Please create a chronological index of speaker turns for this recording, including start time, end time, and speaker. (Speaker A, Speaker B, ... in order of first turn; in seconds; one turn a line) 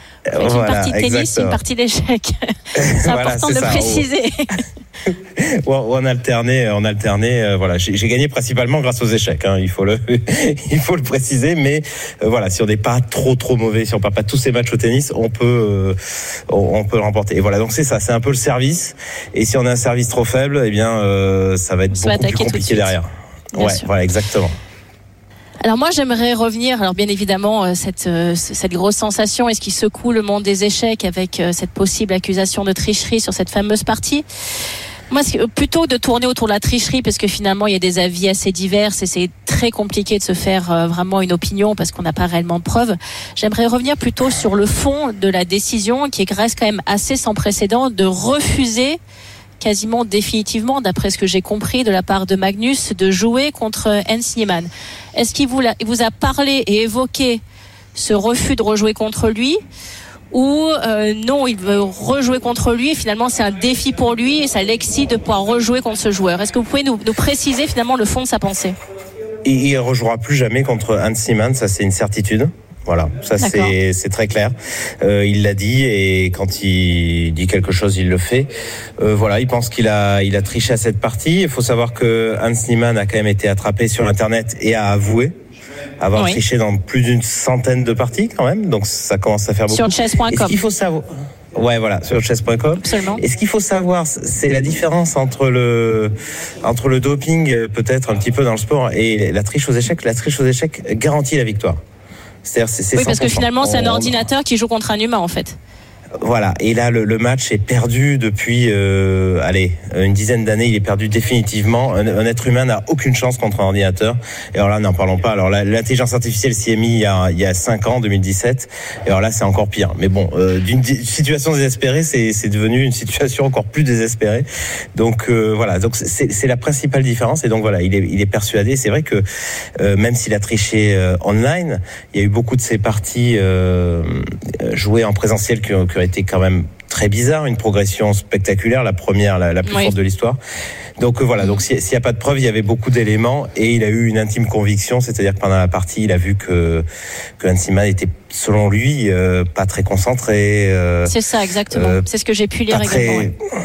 Speaker A: 0.3-1.6
Speaker B: 0.4-4.5
Speaker A: 2.8-4.1
Speaker A: 5.1-16.0
Speaker A: 16.5-24.5
Speaker B: 21.9-22.9
Speaker B: 23.6-23.9
Speaker B: 25.6-34.2
Speaker B: 35.1-49.0
Speaker B: 49.6-57.4
Speaker B: 58.0-59.6
Speaker B: 60.3-68.8
Speaker A: 69.4-78.5
Speaker B: 73.4-73.7
Speaker A: 79.0-85.3
Speaker A: 86.0-96.1
Speaker B: 89.7-90.6
Speaker B: 92.8-93.2
Speaker A: 96.6-101.8
Speaker A: 102.5-104.3
Speaker B: 103.0-105.6
Speaker A: 106.2-129.2
Speaker A: 129.8-140.4
Speaker B: 139.7-139.9
Speaker A: 141.0-146.8
Speaker A: 147.4-151.2
Speaker B: 151.1-153.3
Speaker A: 151.7-152.0
Speaker A: 152.7-153.4